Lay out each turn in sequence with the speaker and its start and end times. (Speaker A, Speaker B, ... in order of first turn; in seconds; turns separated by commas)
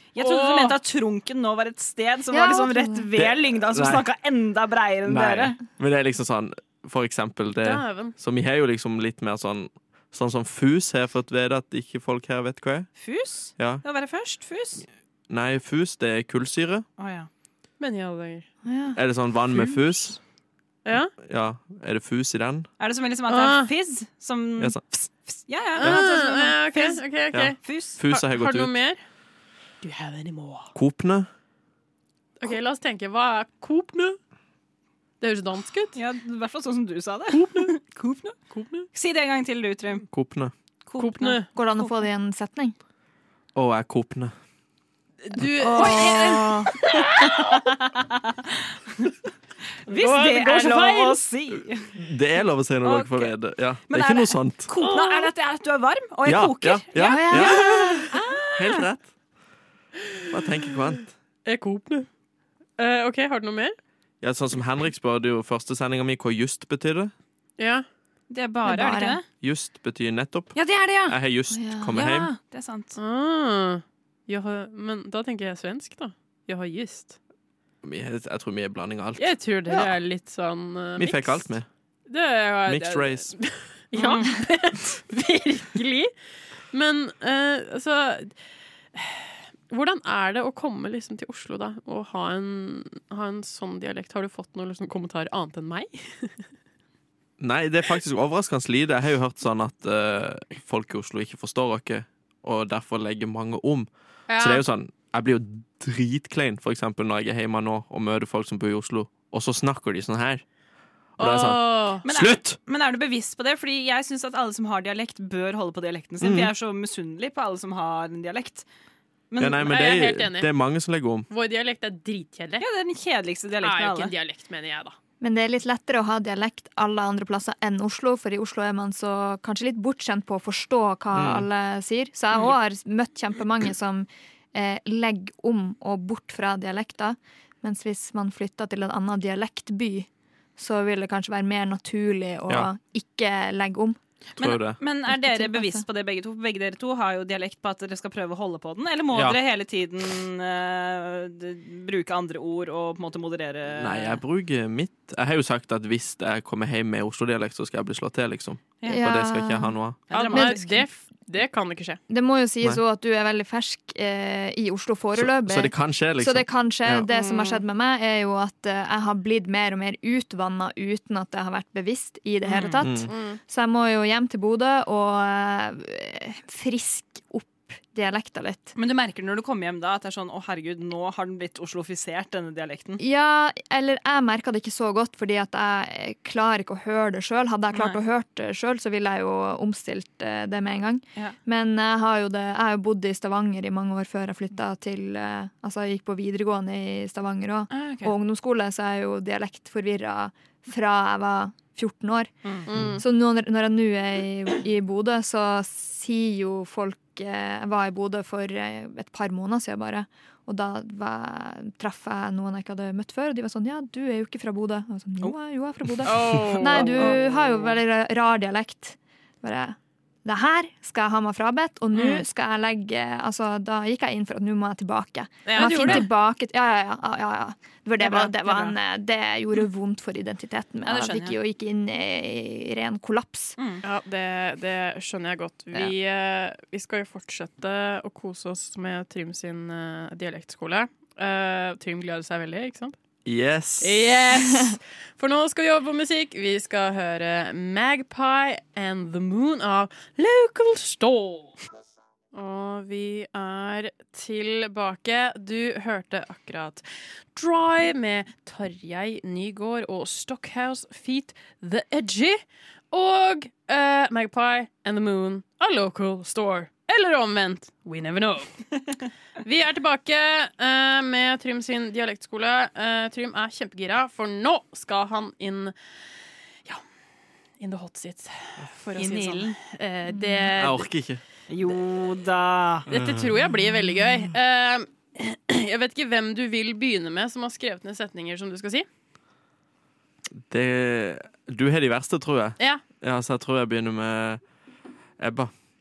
Speaker A: 0.1-5.6, Speaker B: 0.2-0.8, Speaker C: 2.3-3.1, Speaker D: 3.1-4.0, Speaker D: 5.0-12.9, Speaker B: 7.6-8.1, Speaker A: 12.9-14.8, Speaker D: 13.6-13.8, Speaker D: 15.3-16.9, Speaker A: 17.0-17.3, Speaker B: 17.8-18.5, Speaker C: 18.6-19.0, Speaker D: 18.9-20.2, Speaker C: 19.5-19.8, Speaker B: 20.9-21.1, Speaker D: 21.2-22.7, Speaker A: 22.8-27.0, Speaker B: 23.3-23.7, Speaker B: 25.8-27.6, Speaker D: 27.3-28.7, Speaker A: 27.6-28.0, Speaker B: 28.1-29.0, Speaker B: 29.8-30.7, Speaker D: 30.8-31.3, Speaker B: 32.4-34.2, Speaker B: 35.2-36.0, Speaker A: 35.9-38.4, Speaker B: 37.3-37.8, Speaker B: 38.5-38.9, Speaker A: 38.9-40.0, Speaker D: 40.1-40.5, Speaker A: 40.9-41.9, Speaker B: 41.0-41.5, Speaker C: 41.5-42.7, Speaker D: 43.5-44.3, Speaker B: 45.2-47.6, Speaker A: 45.6-48.7, Speaker C: 45.6-46.7, Speaker A: 49.9-51.9, Speaker B: 49.9-51.2, Speaker D: 51.9-54.7, Speaker A: 52.8-53.3, Speaker A: 53.9-58.8, Speaker B: 54.8-55.3, Speaker D: 56.2-58.0, Speaker C: 56.9-58.1, Speaker D: 58.5-59.1, Speaker D: 60.3-61.1, Speaker B: 61.5-62.1, Speaker B: 62.8-63.7, Speaker D: 64.2-67.1, Speaker B: 67.6-67.8, Speaker A: 68.3-69.2, Speaker C: 68.6-69.2, Speaker D: 69.4-72.3, Speaker A: 70.5-71.2, Speaker C: 71.5-72.0, Speaker A: 71.9-73.0, Speaker B: 73.0-77.2, Speaker D: 77.8-79.8, Speaker B: 79.2-81.5, Speaker D: 81.0-81.7, Speaker B: 82.1-86.1, Speaker D: 82.7-83.3, Speaker A: 83.9-84.3, Speaker B: 86.7-88.3, Speaker B: 88.9-96.4, Speaker D: 97.4-110.4, Speaker B: 104.3-104.6, Speaker B: 111.2-112.0, Speaker D: 111.2-112.6, Speaker A: 112.0-118.7, Speaker D: 116.2-116.5, Speaker A: 119.3-119.7, Speaker D: 119.4-121.3, Speaker B: 119.6-120.5, Speaker B: 121.3-122.6, Speaker A: 122.6-124.1, Speaker B: 123.6-125.0, Speaker C: 125.2-144.0, Speaker D: 131.1-131.5, Speaker A: 144.3-154.2, Speaker D: 144.4-144.8, Speaker C: 145.1-145.8, Speaker D: 149.1-149.4, Speaker D: 153.7-160.0, Speaker A: 158.8-159.1, Speaker C: 158.9-160.9, Speaker A: 160.1-160.6, Speaker B: 160.1-162.0, Speaker C: 162.1-178.7, Speaker D: 165.2-167.1, Speaker A: 167.2-167.6, Speaker A: 172.4-172.8, Speaker D: 172.8-173.1, Speaker B: 173.1-173.4, Speaker A: 178.8-183.0, Speaker C: 183.0-202.4, Speaker A: 197.7-198.1, Speaker B: 202.7-203.0, Speaker C: 203.0-233.6, Speaker B: 216.0-217.2, Speaker A: 216.8-217.2, Speaker B: 221.9-222.2, Speaker B: 225.4-226.1, Speaker A: 225.5-226.1, Speaker B: 228.0-228.7, Speaker A: 230.8-231.4, Speaker B: 233.8-242.9, Speaker D: 243.2-244.2, Speaker B: 243.8-251.6, Speaker B: 252.3-262.4, Speaker B: 262.9-268.7, Speaker B: 269.4-275.7, Speaker B: 277.6-280.9, Speaker A: 278.9-279.6, Speaker D: 280.6-281.2, Speaker A: 281.5-282.9, Speaker B: 282.9-288.9, Speaker D: 282.9-283.4, Speaker D: 290.5-294.4, Speaker D: 295.2-295.5